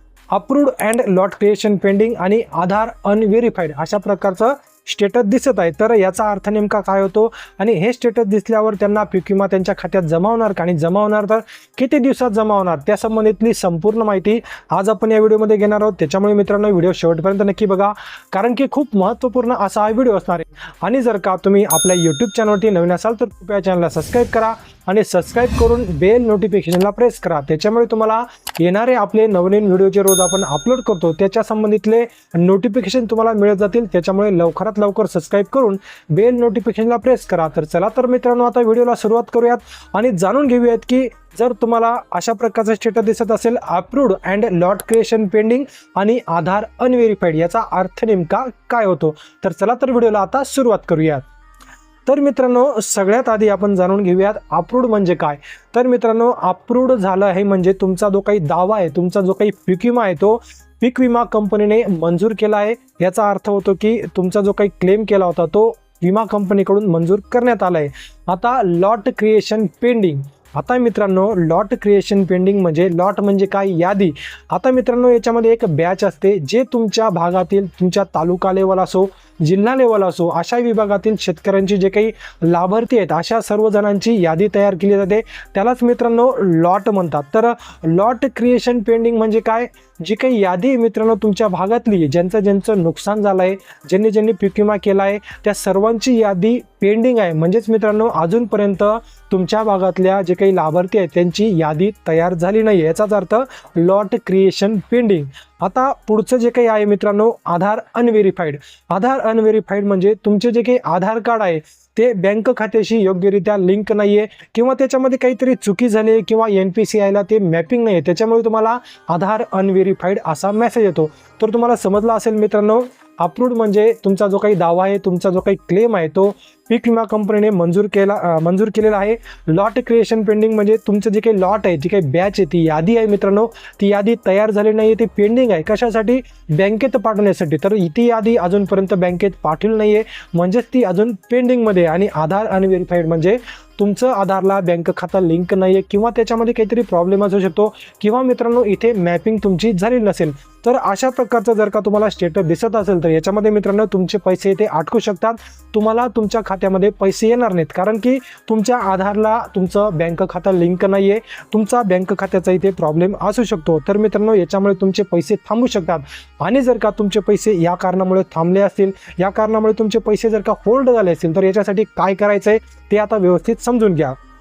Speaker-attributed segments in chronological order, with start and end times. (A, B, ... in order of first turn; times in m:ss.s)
0:00.3-0:51.2 A
0:52.0-2:54.2 A